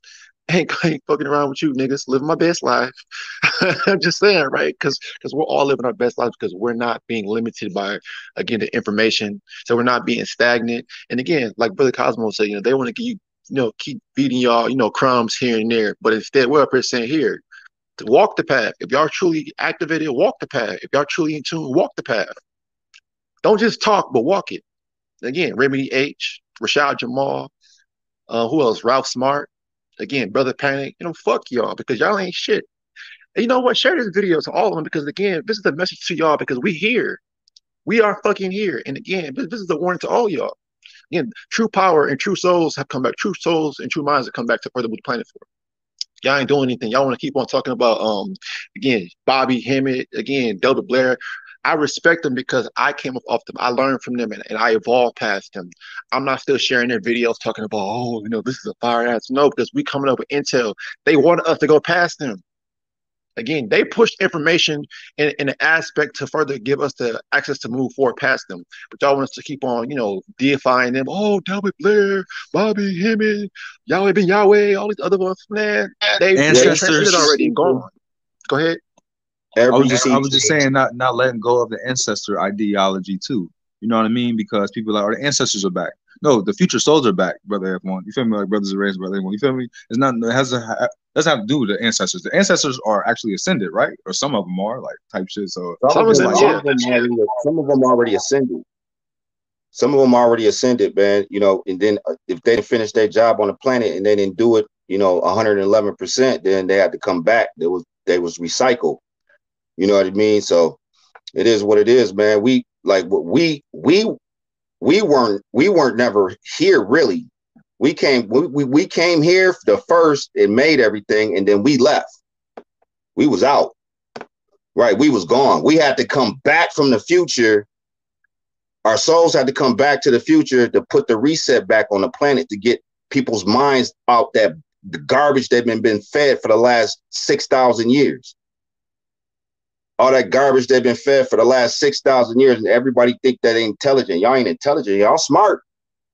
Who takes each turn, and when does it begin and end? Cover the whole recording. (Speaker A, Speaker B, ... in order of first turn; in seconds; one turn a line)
Speaker A: 0.5-17.4
Speaker A: 18.0-22.4
Speaker A: 23.4-24.6
Speaker A: 25.2-27.5
Speaker A: 28.3-29.5
Speaker A: 30.0-32.7
Speaker A: 33.4-37.2
Speaker A: 37.9-40.5
Speaker A: 41.1-45.5
Speaker A: 46.2-62.4
Speaker A: 63.4-77.9
Speaker B: 76.4-77.8
Speaker C: 76.4-77.8
Speaker A: 78.5-78.8
Speaker C: 79.6-80.7
Speaker B: 79.7-96.5
Speaker C: 95.8-98.6
Speaker A: 95.9-97.0
Speaker C: 99.7-109.0
Speaker C: 109.8-110.8
Speaker C: 111.3-114.1
Speaker C: 114.8-122.1
Speaker C: 123.2-123.8
Speaker C: 124.8-127.7
Speaker C: 128.8-138.3
Speaker C: 140.0-145.6